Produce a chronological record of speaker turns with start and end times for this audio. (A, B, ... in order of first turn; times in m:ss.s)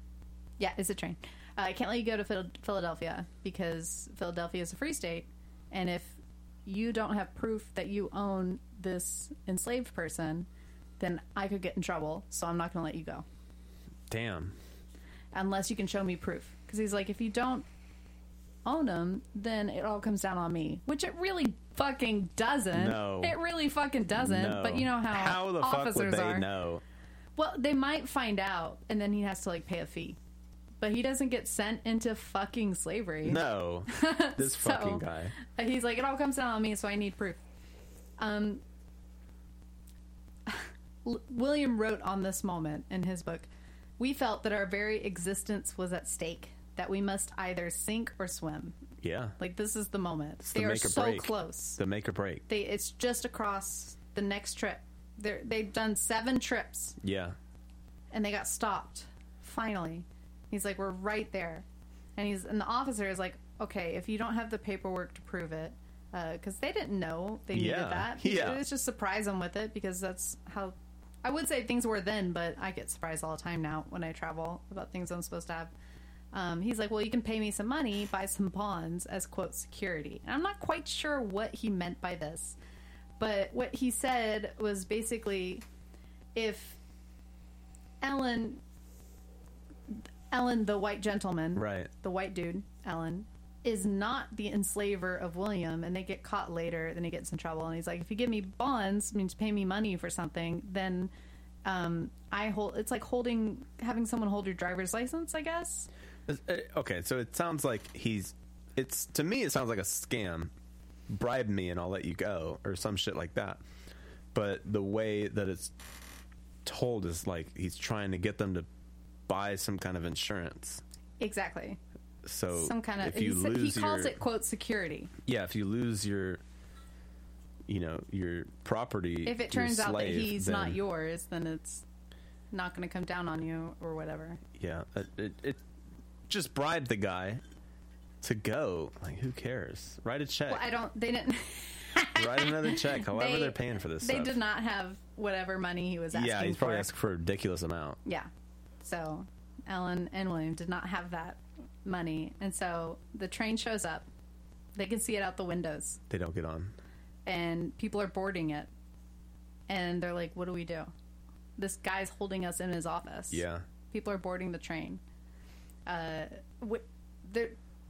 0:00.6-0:10.5 A
0:11.0-0:13.2 A
0:14.1-0:14.6 B
0:15.3-0:17.6 A
0:18.6-0:26.5 A
0:22.7-0:23.4 B
0:24.1-0:26.8 B
0:27.4-0:30.2 A
0:30.8-0:37.4 A
0:33.2-0:35.3 B
0:38.2-0:38.6 A
0:40.5-0:43.5 A
0:44.0-0:48.7 A
0:49.0-0:49.4 B
0:49.4-0:51.8 A
0:50.4-0:52.4 B
0:52.5-0:57.0 A
0:57.0-0:57.4 B
0:58.1-1:01.6 A
1:02.2-1:15.7 A
1:07.5-1:08.6 B
1:16.3-1:22.6 A
1:23.2-1:25.6 A
1:26.3-1:26.8 A
1:28.0-1:28.6 A
1:29.9-1:41.1 A
1:31.6-1:31.9 B
1:41.6-1:45.9 A
1:46.3-1:50.5 B
1:51.1-1:53.6 B
1:54.3-1:55.7 B
1:56.6-1:58.6 B
1:59.3-2:00.8 B
2:01.2-2:01.8 A
2:02.2-2:04.2 B
2:02.5-2:05.1 A
2:05.2-2:06.4 B
2:07.7-2:10.8 B
2:09.2-2:11.8 A
2:12.5-2:14.4 A
2:14.6-2:15.6 B
2:16.3-2:17.4 B
2:18.2-2:20.6 B
2:20.5-2:26.9 A
2:22.2-2:24.4 B
2:26.1-2:28.0 B
2:28.8-2:34.0 A
2:34.8-2:36.0 A
2:36.1-2:36.7 B
2:37.2-2:38.7 A
2:39.7-2:40.9 A
2:41.6-2:45.0 A
2:43.3-2:43.6 B
2:45.8-2:47.6 A